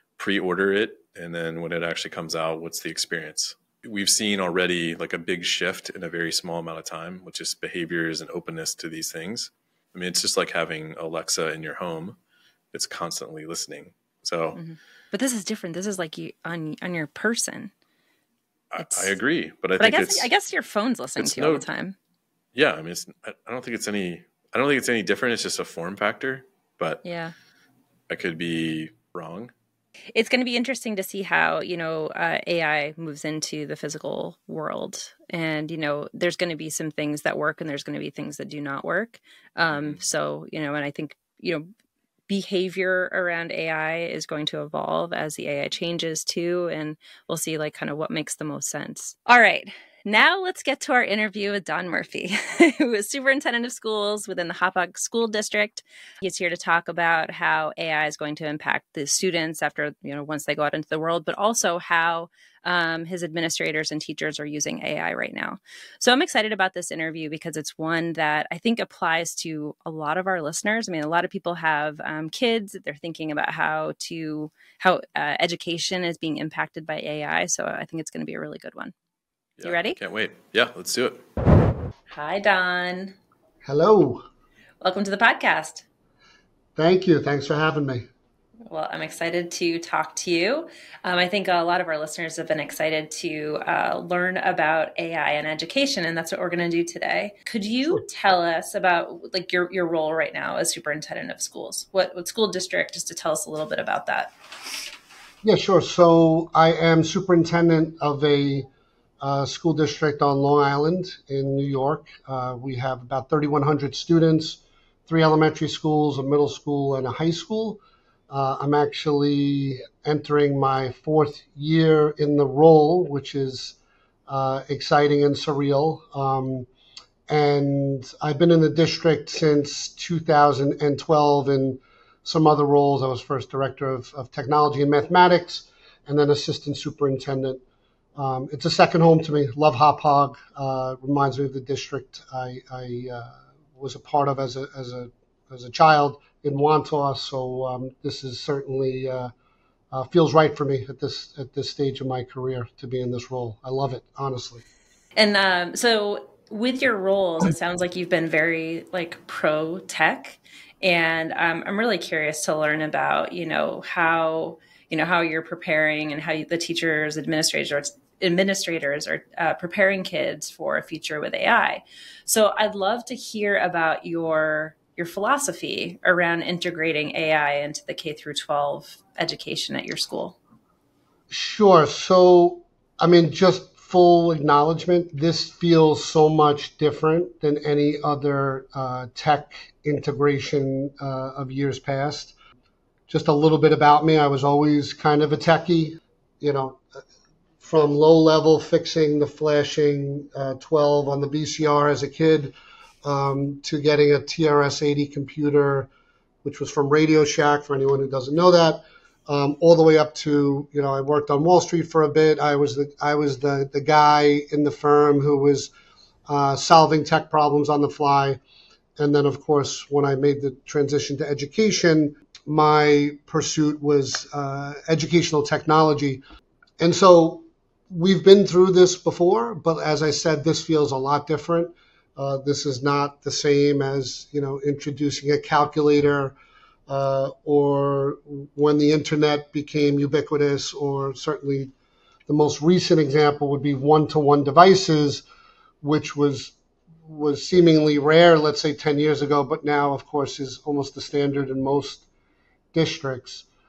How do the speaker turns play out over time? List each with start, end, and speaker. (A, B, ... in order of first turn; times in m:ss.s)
0:00.2-0:12.2 A
0:12.7-0:14.6 A
0:14.5-0:17.7 B
0:18.7-0:20.3 A
0:18.8-0:19.1 B
0:19.8-0:22.0 B
0:21.2-0:21.6 A
0:22.5-0:27.0 A
0:27.0-0:27.3 B
0:28.1-0:29.5 A
0:30.1-0:41.7 B
0:39.7-0:40.0 A
0:42.3-1:18.9 B
1:19.6-1:21.2 A
1:19.6-1:20.0 B
1:22.1-1:23.1 B
1:23.6-1:24.2 C
1:24.8-1:25.8 B
1:26.8-1:28.1 C
1:28.7-1:44.3 B
1:45.4-1:48.7 C
1:49.2-2:03.8 C
2:04.3-2:06.7 C
2:07.3-2:17.6 C
2:18.2-2:29.3 C
2:29.9-2:34.6 C
2:35.2-3:00.4 B
3:01.3-3:12.3 C
3:13.1-3:16.8 C
3:17.6-3:25.9 C
3:26.4-3:35.7 C
3:36.3-3:38.4 C
3:39.0-3:46.2 C
3:46.8-3:56.3 C
3:56.9-4:01.7 C
4:02.3-4:05.2 C
4:05.8-4:06.5 C
4:07.1-4:12.0 C
4:12.7-4:13.4 C